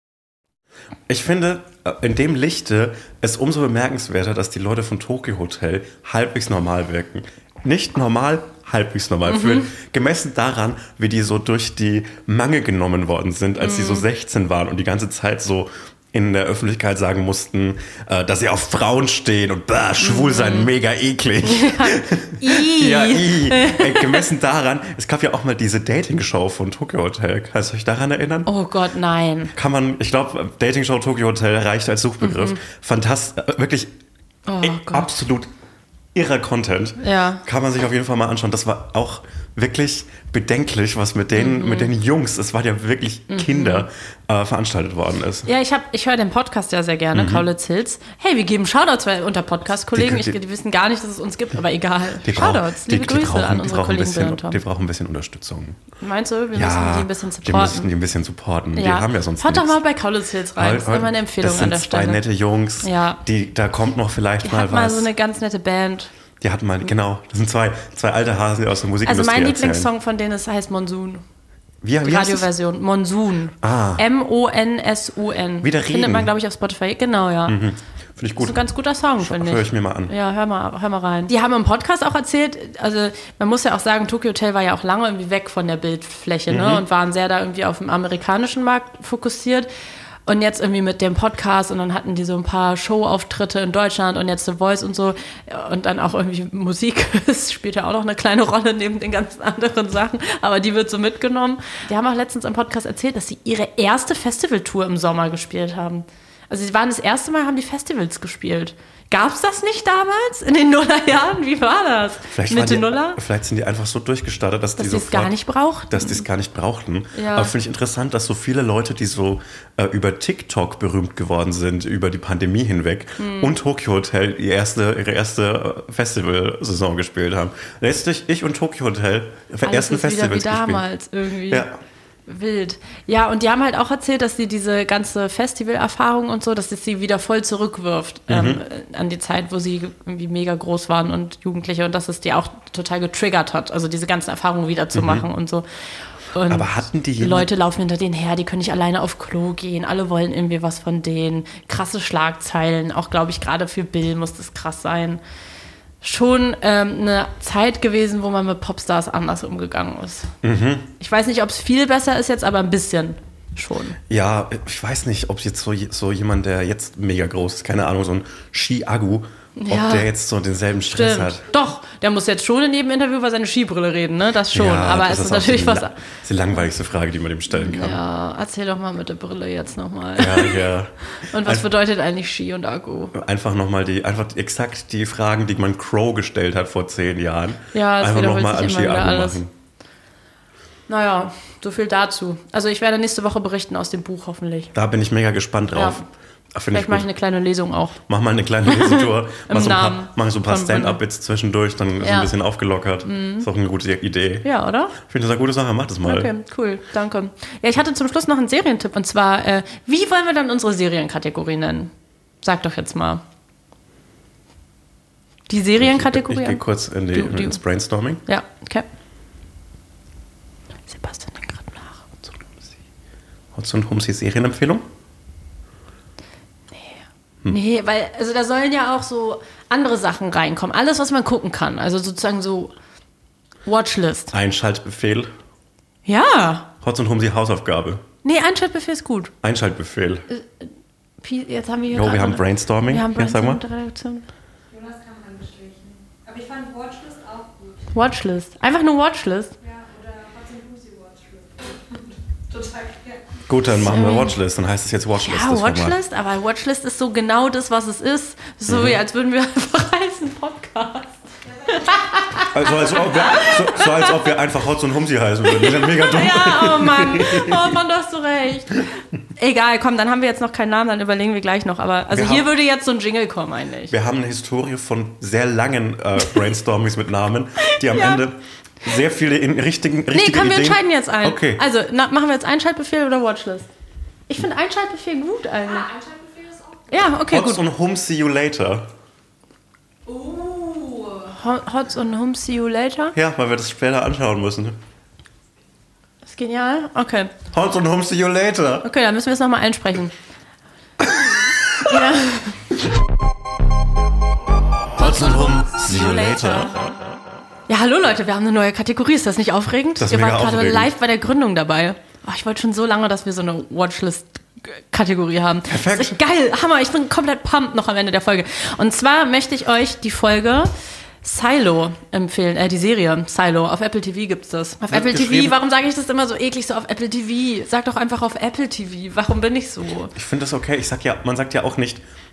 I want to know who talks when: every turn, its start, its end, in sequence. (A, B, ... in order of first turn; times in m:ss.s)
0:01.1-0:28.5 A
0:09.3-0:09.7 B
0:13.6-0:14.0 B
0:20.0-0:20.7 B
0:21.4-0:24.2 B
0:28.4-0:29.5 B
0:29.5-0:33.9 A
0:32.2-0:32.6 B
0:34.4-0:35.1 B
0:34.6-0:35.5 A
0:36.1-0:45.5 A
0:37.0-0:37.4 B
0:41.3-0:41.9 B
0:43.3-0:43.9 B
0:45.4-0:54.6 B
0:47.1-0:47.4 A
0:49.9-0:50.4 A
0:52.2-0:55.8 A
0:56.0-0:57.9 B
0:56.5-0:59.8 A
0:58.7-1:02.2 B
1:00.6-1:05.1 A
1:02.8-1:03.2 B
1:04.4-1:06.1 B
1:06.4-1:09.9 A
1:09.0-1:11.2 B
1:11.8-1:12.5 A
1:12.0-1:17.6 B
1:13.6-1:14.0 A
1:15.6-1:16.3 A
1:17.4-1:18.6 A
1:18.4-1:29.7 B
1:19.2-1:20.1 A
1:26.5-1:26.8 A
1:30.2-1:53.2 B
1:52.3-1:55.3 A
1:54.8-1:56.2 B
1:55.9-2:10.8 A
1:57.1-1:57.5 B
2:03.2-2:03.5 B
2:09.6-2:11.7 B
2:11.5-2:11.8 A
2:12.3-2:25.6 B
2:18.3-2:18.6 A
2:24.9-2:25.2 A
2:26.3-2:35.2 B
2:26.5-2:27.5 A
2:36.0-2:40.3 B
2:40.4-2:40.9 A
2:41.0-2:44.0 B
2:44.1-2:51.4 A
2:49.6-2:50.1 B
2:50.9-2:55.9 B
2:54.5-2:58.0 A
2:57.5-3:03.2 B
3:00.2-3:01.7 A
3:03.1-3:09.5 A
3:07.7-3:09.4 B
3:10.9-3:14.7 B
3:14.7-3:17.1 A
3:15.7-3:16.0 B
3:16.7-3:18.0 B
3:18.1-3:26.3 A
3:18.7-3:21.0 B
3:22.0-3:22.3 B
3:23.0-3:23.5 B
3:24.4-3:25.0 B
3:26.0-3:33.2 B
3:35.5-3:37.6 B
3:35.8-3:38.2 A
3:38.2-3:38.8 B
3:40.9-3:42.0 B
3:42.3-3:42.6 A
3:43.5-3:44.8 A
3:46.7-3:52.7 B
3:53.6-3:54.3 B
3:54.3-3:55.3 A
3:56.0-3:56.7 B
3:56.8-3:58.0 A
3:58.2-3:59.3 B
3:59.4-4:00.2 A
4:00.3-4:00.7 B
4:01.2-4:04.3 B
4:01.9-4:03.6 A
4:04.7-4:07.9 C
4:07.9-4:09.5 B
4:09.6-4:13.4 C
4:13.5-4:16.0 A
4:13.7-4:14.4 B
4:15.2-4:21.1 B
4:18.7-4:19.0 A
4:21.7-4:24.3 B
4:21.7-4:21.9 C
4:22.5-4:27.8 A
4:25.5-4:28.8 B
4:29.4-4:33.9 B
4:32.1-4:32.5 A
4:33.9-4:41.6 A
4:37.7-4:38.2 B
4:40.1-4:43.7 B
4:44.3-4:45.9 B
4:45.7-4:47.0 C
4:46.9-4:47.6 B
4:47.3-4:48.9 A
4:50.1-4:51.1 C
4:51.2-4:53.1 B
4:53.1-4:54.8 A
4:56.2-4:57.3 B
4:57.5-4:58.9 A
4:58.8-5:00.1 B
5:01.8-5:02.6 B
5:05.0-5:06.8 A
5:05.0-5:06.7 B
5:07.7-5:20.7 B
5:10.0-5:10.9 A
5:15.7-5:16.2 A
5:21.2-5:30.1 B
5:24.8-5:25.6 A
5:30.1-5:32.0 A